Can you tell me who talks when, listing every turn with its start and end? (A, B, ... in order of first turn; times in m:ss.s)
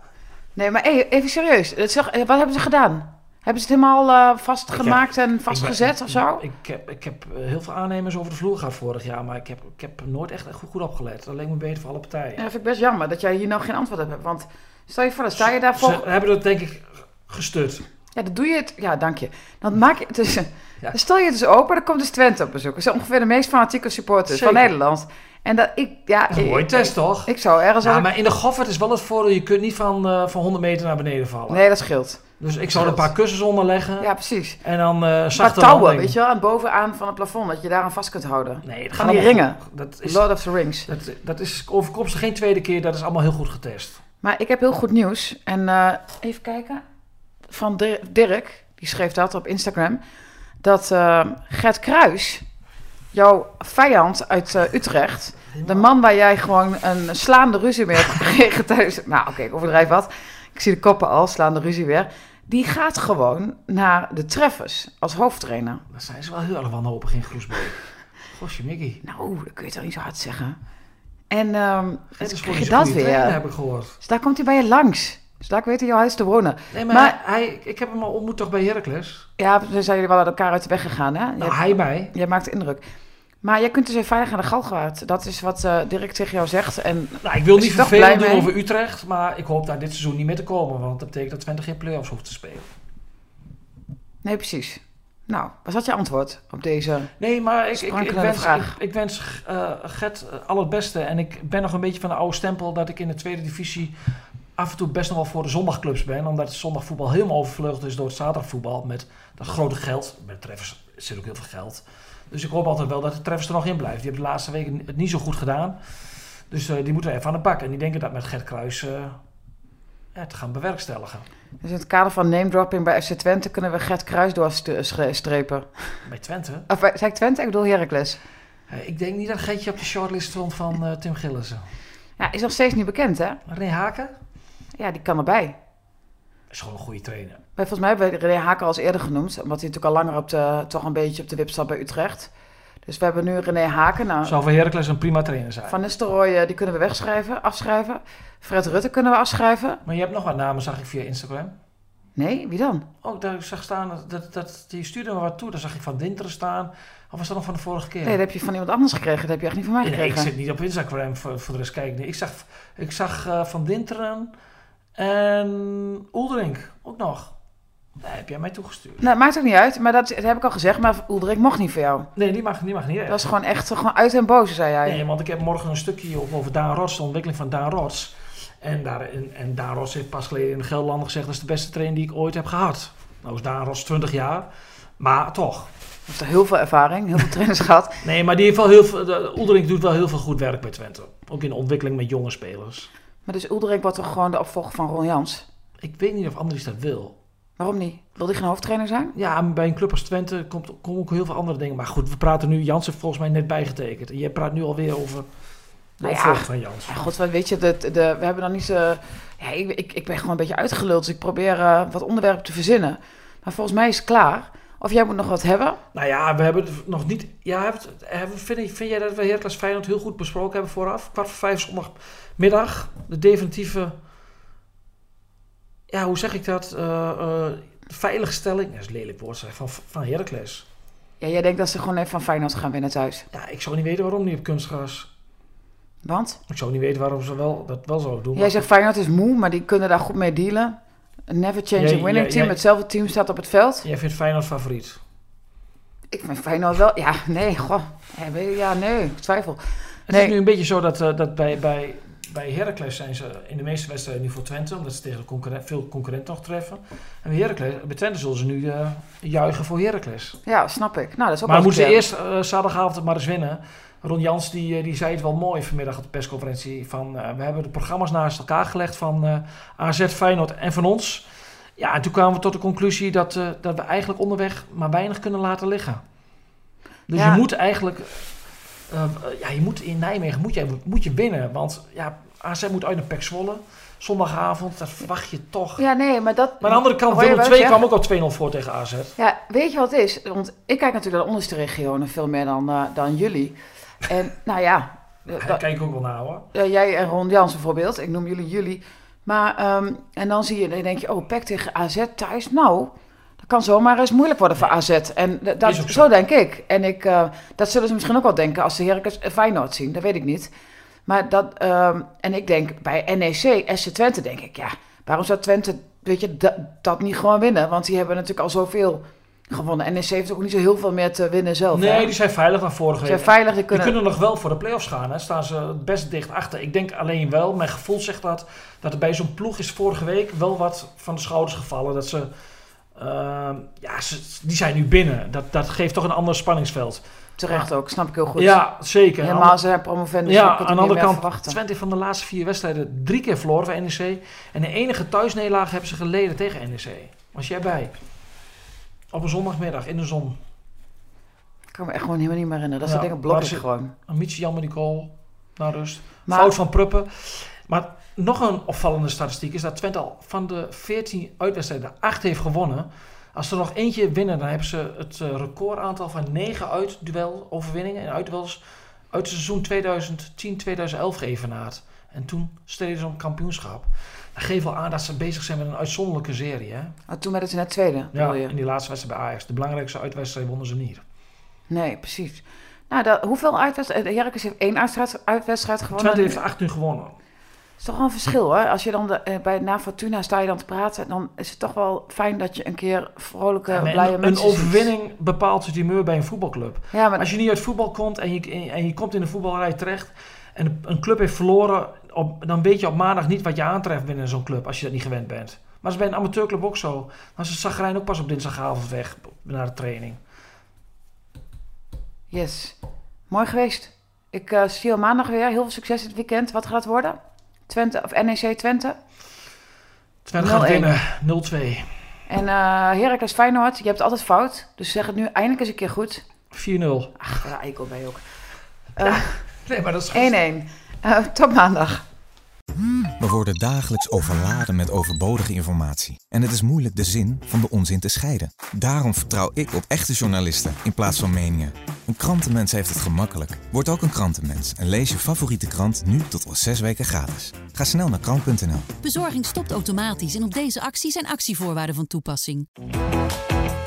0:00.6-0:06.4 A
0:04.8-0:12.4 B
0:12.4-0:16.0 A
0:15.4-0:17.9 B
0:18.2-0:28.1 A
0:24.3-0:24.7 B
0:26.3-0:31.6 B
0:31.5-0:33.1 A
0:32.4-0:34.1 B
0:34.0-0:34.6 A
0:34.6-0:36.2 B
0:35.4-0:40.9 A
0:38.6-0:40.3 B
0:40.9-0:44.0 B
0:44.2-0:46.8 A
0:47.5-0:50.0 A
0:50.6-0:52.4 A
0:53.1-1:05.8 A
0:55.5-0:55.9 B
1:05.9-1:07.8 B
1:08.3-1:09.0 B
1:09.0-1:10.6 A
1:11.3-1:13.4 A
1:12.2-1:14.0 B
1:14.0-1:17.2 A
1:16.7-1:19.3 B
1:19.4-1:22.8 A
1:21.4-1:22.1 B
1:23.4-1:28.5 A
1:27.2-1:32.7 B
1:34.2-1:37.1 A
1:37.2-1:44.0 B
1:37.7-1:38.8 A
1:44.6-1:55.8 B
1:56.5-1:59.2 B
2:00.1-2:01.3 B
2:01.6-2:05.9 A
2:06.1-2:06.7 B
2:06.7-2:08.2 A
2:08.7-2:11.7 B
2:12.2-2:13.4 A
2:13.5-2:14.2 B
2:14.8-2:15.6 A
2:16.5-2:17.4 B
2:17.6-2:22.3 A
2:22.8-2:24.4 A
2:24.2-2:25.8 B
2:25.7-2:29.8 A
2:29.8-2:31.6 B
2:32.2-2:32.9 A
2:33.0-2:38.2 B
2:38.0-2:40.3 A
2:39.8-2:44.3 B
2:45.0-2:47.3 B
2:48.0-2:49.0 B
2:49.0-2:52.1 A
2:52.2-2:53.3 B
2:53.1-2:55.0 A
2:54.8-3:05.7 B
3:06.1-3:08.0 A
3:08.0-3:12.9 B
3:13.3-3:15.4 A
3:15.8-3:17.2 B
3:17.6-3:19.1 A
3:19.1-3:25.3 B
3:26.0-3:27.0 B
3:26.0-3:35.8 A
3:35.9-3:44.0 B
3:45.9-3:50.7 B
3:51.2-3:53.3 A
3:53.3-3:55.1 B
3:56.0-3:56.4 A
3:56.5-3:58.6 B
3:58.3-4:00.8 A
4:01.3-4:03.9 A
4:01.8-4:02.6 B
4:03.8-4:05.0 B
4:06.1-4:10.4 A
4:10.1-4:20.4 B
4:20.5-4:22.0 A
4:21.5-4:36.0 B
4:37.1-4:38.3 B
4:37.1-4:37.4 A
4:38.9-4:45.8 B
4:45.8-4:47.8 A
4:46.6-4:49.2 B
4:49.2-4:55.6 A
4:55.3-4:56.5 B
4:56.5-5:10.5 A
5:05.6-5:06.1 B
5:11.1-5:22.1 A
5:21.7-5:32.3 B
5:23.0-5:24.0 A
5:33.0-5:37.6 B
5:37.4-5:38.6 A
5:38.4-5:39.6 B
5:39.2-5:41.6 A
5:40.2-5:48.0 B
5:49.1-5:50.4 B
5:51.7-5:53.9 A
5:52.8-6:17.0 B
5:56.3-5:56.5 A
6:17.1-6:18.5 A
6:18.1-6:21.0 B
6:21.7-6:26.4 A
6:25.9-6:27.2 B
6:27.8-6:34.9 A
6:33.7-6:50.2 B
6:36.9-6:37.3 A
6:52.3-6:52.8 A
6:53.3-6:59.0 A
7:00.2-7:01.9 B
7:00.4-7:00.9 A
7:02.3-7:06.2 A
7:06.5-7:07.2 B
7:07.2-7:08.2 A
7:09.0-7:09.4 A
7:09.0-7:10.4 B
7:10.1-7:12.0 A
7:13.2-7:28.9 C
7:29.0-7:32.7 D